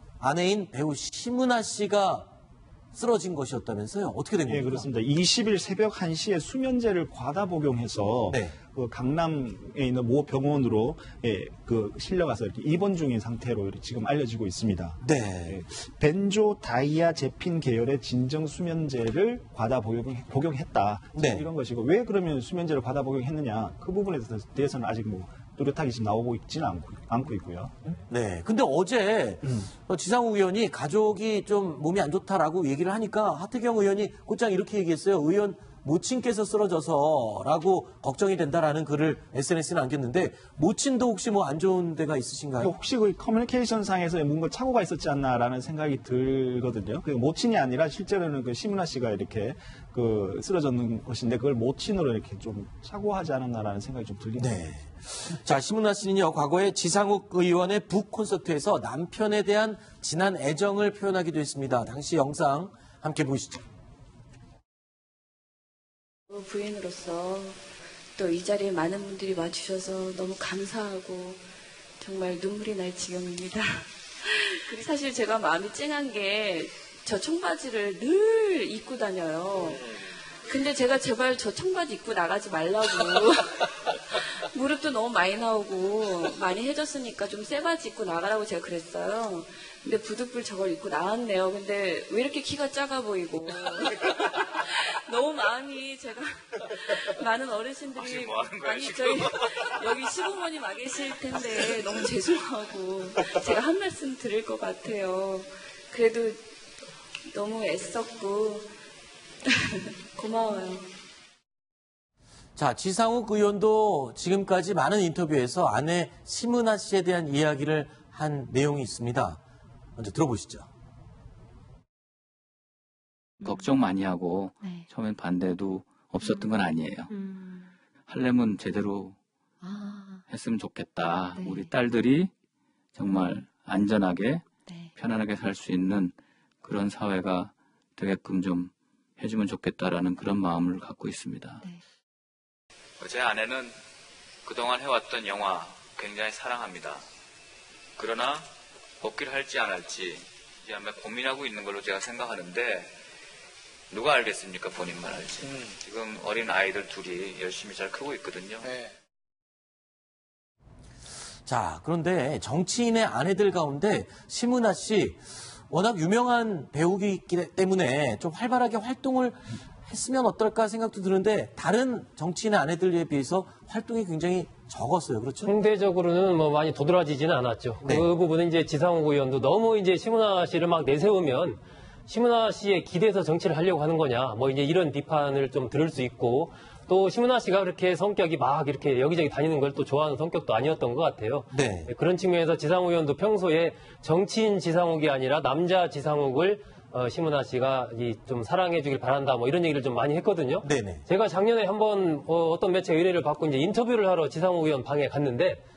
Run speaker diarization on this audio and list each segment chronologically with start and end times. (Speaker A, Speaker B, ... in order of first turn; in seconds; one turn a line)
Speaker A: 0.2-2.3
Speaker A: 2.9-4.9
Speaker B: 4.5-27.9
Speaker A: 8.3-8.6
Speaker A: 15.0-15.6
Speaker A: 21.1-21.4
Speaker A: 28.1-42.7
Speaker B: 42.6-54.6
Speaker A: 54.4-63.6
Speaker C: 66.3-67.6
Speaker C: 68.2-71.4
Speaker C: 72.0-106.4
Speaker D: 97.9-99.8
Speaker C: 107.3-108.7
Speaker C: 109.4-110.9
Speaker A: 112.5-119.4
Speaker A: 120.0-120.7
Speaker E: 123.4-123.7
Speaker D: 123.4-127.1
Speaker E: 124.6-124.9
Speaker E: 126.2-126.5
Speaker E: 127.1-127.7
Speaker D: 128.1-129.2
Speaker E: 129.6-130.2
Speaker D: 130.3-132.3
Speaker E: 131.3-131.7
Speaker D: 132.9-141.7
Speaker E: 133.0-133.4
Speaker E: 134.7-134.9
Speaker D: 143.0-143.8
Speaker D: 144.4-147.0
Speaker D: 148.0-148.5
Speaker D: 149.0-152.9
Speaker D: 153.9-158.7
Speaker A: 161.4-175.5
Speaker F: 175.4-205.6
Speaker A: 191.5-191.9
Speaker A: 200.6-201.0